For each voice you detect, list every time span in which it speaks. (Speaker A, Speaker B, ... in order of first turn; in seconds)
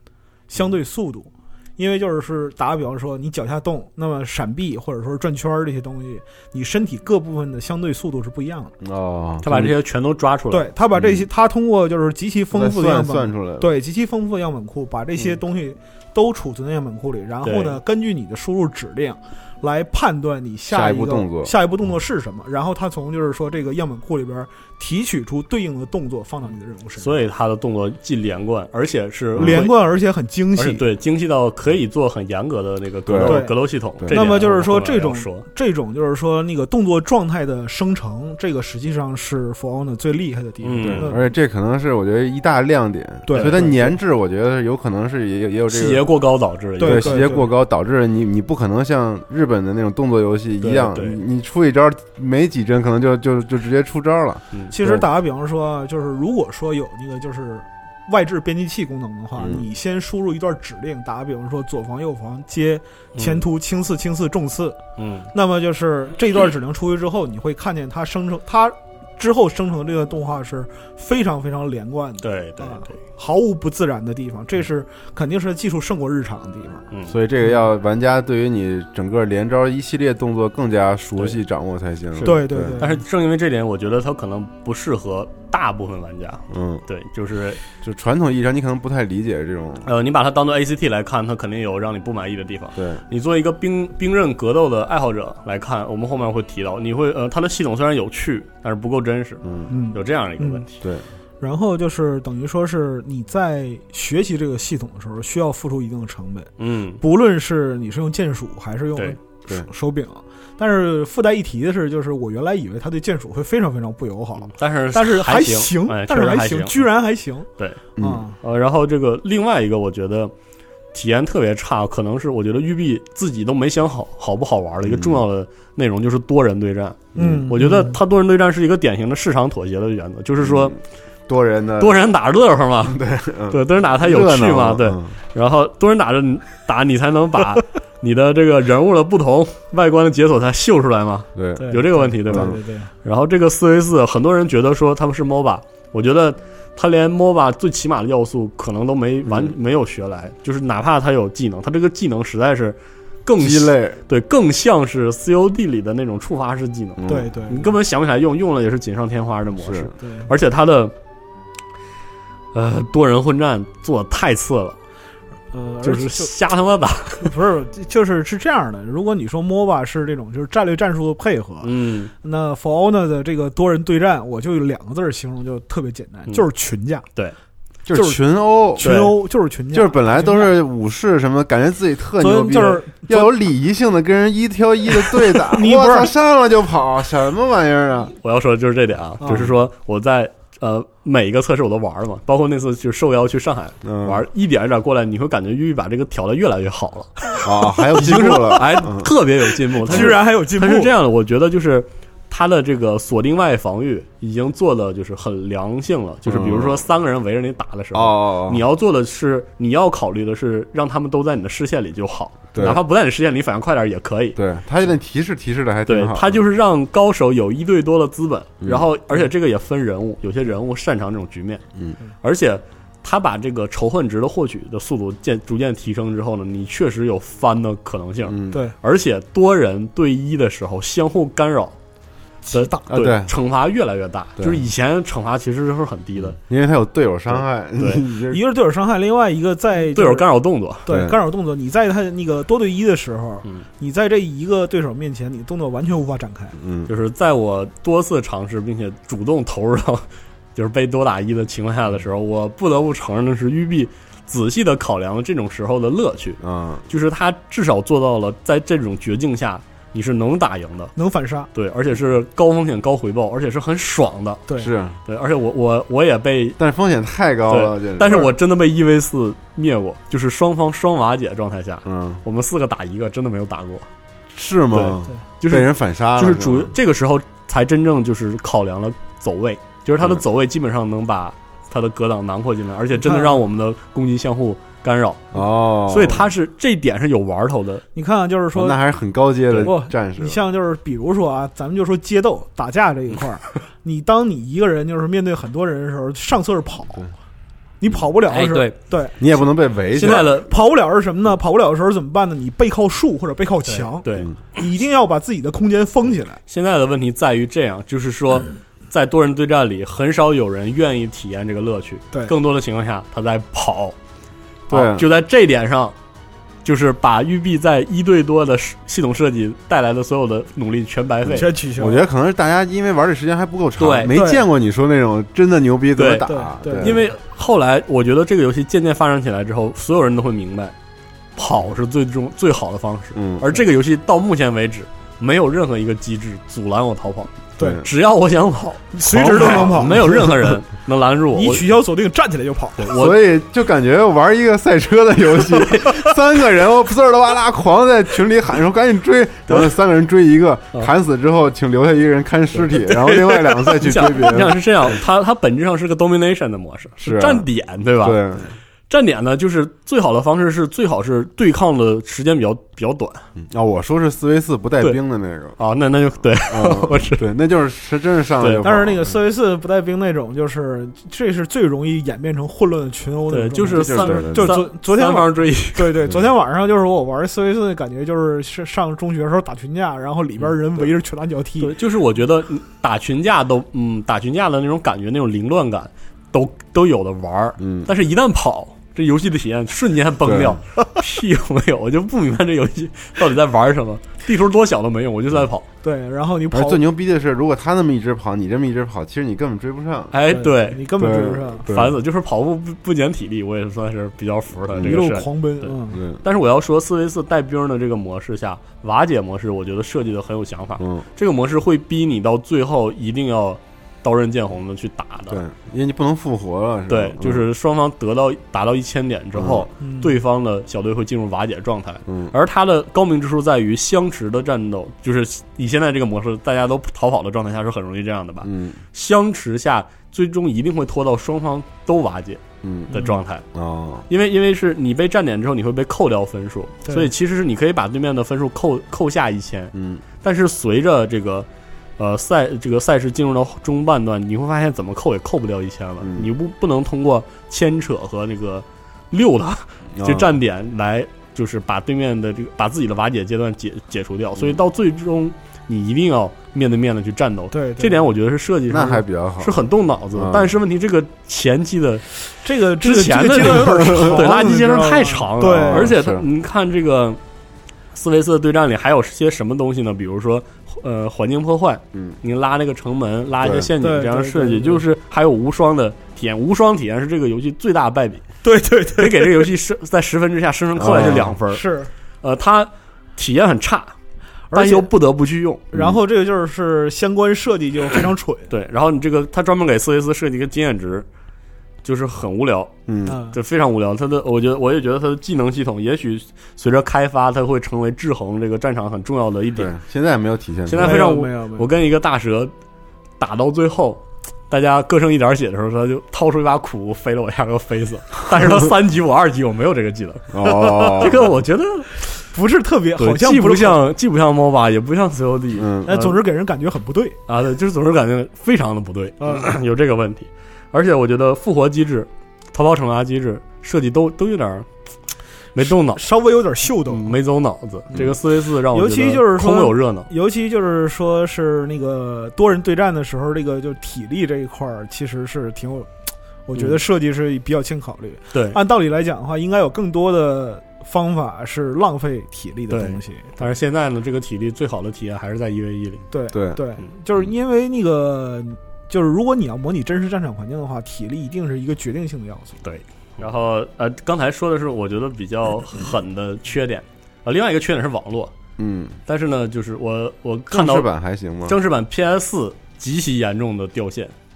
Speaker A: 0.5-8.7, 10.5-27.2, 29.4-30.8, 33.2-41.3, 43.3-44.0, 46.8-47.5, 54.7-64.8, 65.3-76.9, 82.2-83.0, 99.7-100.6, 101.4-118.4, 127.2-128.0, 141.6-142.9, 157.1-157.8, 160.0-160.3, 165.5-166.3, 167.2-177.1, 177.9-180.5, 182.2-183.3, 185.3-186.1, 189.2-189.5, 198.1-198.5, 199.8-200.9, 232.5-232.8, 238.3-240.3, 240.8-246.5, 260.9-261.5, 282.9-283.4, 287.9-288.8, 289.6-297.1, 297.8-299.3, 299.9-306.4, 321.3-322.0, 324.1-324.4, 326.2-327.0, 337.6-337.8, 338.9-340.5, 341.3-342.9, 368.6-381.7, 395.8-396.8, 400.3-401.7, 404.8-406.0, 419.8-420.2, 432.9-433.2, 457.5-458.1, 462.4-465.9, 473.8-474.8, 478.4-479.5, 480.9-481.9, 484.5-484.9, 485.7-488.5, 493.1-493.4, 500.8-501.7, 512.3-513.8, 515.8-517.2, 519.2-519.5, 525.6-527.2, 528.7-535.9, 536.5-543.4, 546.1-552.6
Speaker B: 8.8-9.7, 10.9-11.3, 12.5-13.7, 20.7-21.5, 29.3-29.6, 33.0-34.4, 40.8-46.0, 46.8-55.1, 59.4-59.6, 77.1-82.8, 86.5-86.8, 87.8-89.9, 92.7-93.0, 99.4-99.7, 118.0-118.2, 124.8-125.2, 127.1-127.5, 130.4-132.0, 132.8-135.2, 141.3-142.6, 149.2-149.5, 153.4-154.0, 157.0-157.3, 159.6-159.9, 177.9-178.9, 179.7-188.1, 193.8-194.2, 197.4-199.1, 199.8-200.2, 206.3-206.8, 207.9-208.6, 212.5-212.8, 214.3-216.4, 218.6-218.9, 228.3-228.6, 232.9-233.3, 234.4-234.6, 236.2-238.4, 240.9-241.2, 246.6-246.9, 256.4-256.9, 264.6-265.0, 266.6-268.3, 271.8-272.2, 274.3-276.7, 285.3-286.2, 288.5-290.4, 299.2-300.3, 314.7-315.1, 321.3-327.0, 333.1-333.5, 337.6-337.9, 339.4-339.8, 342.9-354.6, 357.0-357.5, 358.0-358.5, 363.4-365.6, 366.4-369.1, 373.6-374.6, 387.6-387.9, 390.2-390.6, 396.5-400.1, 401.0-402.0, 404.7-405.0, 405.9-406.2, 410.8-411.1, 415.3-417.4, 419.3-419.7, 422.1-422.3, 428.4-428.8, 432.6-432.9, 433.5-434.1, 439.7-440.0, 446.0-446.3, 449.9-450.3, 458.7-460.5, 463.7-464.3, 465.4-466.2, 473.4-473.7, 480.8-481.3, 485.7-486.0, 492.9-493.2, 499.6-501.1, 510.3-511.3, 515.6-516.0, 546.3-546.6, 558.6-559.0, 560.5-561.6
Speaker C: 9.4-10.7, 17.4-17.8, 27.0-29.8, 30.6-35.5, 40.6-41.1, 43.3-43.7, 45.7-47.2, 50.6-51.2, 63.1-63.4, 65.0-65.3, 72.2-73.0, 82.1-87.6, 89.8-100.7, 106.6-107.0, 114.4-116.8, 118.4-120.3, 120.9-130.8, 131.8-133.0, 133.5-160.9, 162.5-164.8, 165.8-167.3, 171.6-172.1, 178.8-179.1, 188.2-197.1, 198.0-214.4, 215.9-221.6, 222.2-231.8, 232.5-236.4, 239.9-240.9, 246.9-260.9, 261.5-264.4, 265.0-266.6, 267.5-273.9, 274.7-285.3, 285.9-287.8, 298.3-298.8, 299.9-300.5, 303.7-304.3, 306.5-313.9, 314.7-315.9, 316.6-321.5, 323.8-324.1, 325.9-330.7, 331.4-341.6, 342.8-343.2, 352.5-358.2, 358.9-363.2, 365.6-367.2, 368.4-368.6, 373.3-375.9, 381.6-395.6, 400.1-415.4, 416.9-433.4, 434.1-441.5, 442.0-462.1, 462.8-467.2, 467.9-478.2, 478.9-481.6, 482.2-483.9, 484.5-485.6, 488.5-491.1, 491.8-492.7, 493.3-499.7, 500.6-502.5, 503.2-512.0, 513.0-516.1, 517.3-524.7, 525.5-526.0, 526.9-530.1, 538.3-538.6, 542.7-546.0, 552.6-558.3, 559.1-560.9, 561.5-564.1